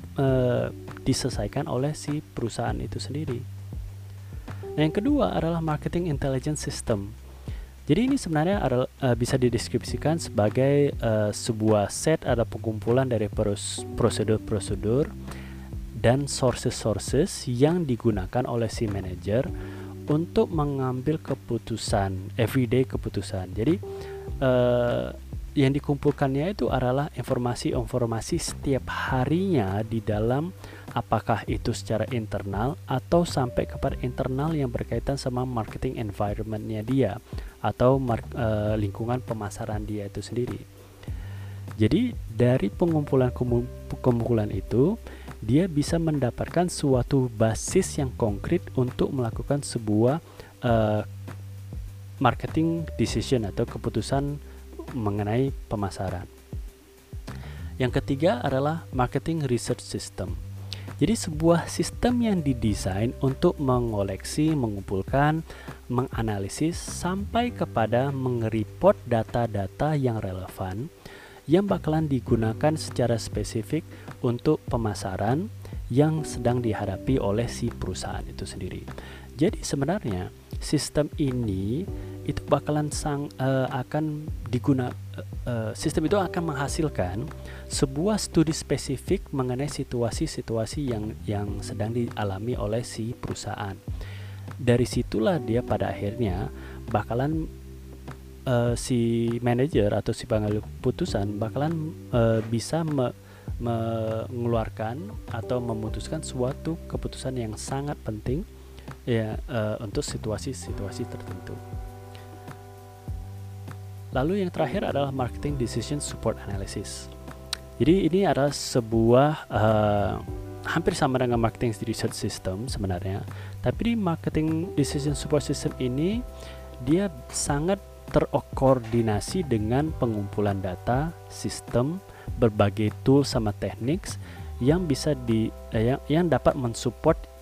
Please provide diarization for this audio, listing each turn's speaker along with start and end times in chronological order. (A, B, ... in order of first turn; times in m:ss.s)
0:00.2-0:03.4 A
0:04.8-0:07.1 A
0:07.9-0:15.1 A
0:16.0-0:19.5 A
0:20.1-0:23.8 A
0:24.4-0:40.6 A
0:41.8-0:45.0 A
0:45.5-0:51.1 A
0:52.2-0:54.4 A
0:55.0-0:56.3 A
0:57.8-1:00.4 A
1:01.0-1:05.4 A
1:05.9-1:10.9 A
1:11.5-1:18.9 A
1:19.4-1:33.8 A
1:34.6-1:37.5 A
1:38.5-1:48.4 A
1:49.1-1:51.6 A
1:54.2-1:57.1 A
1:57.8-2:06.2 A
2:06.8-2:17.3 A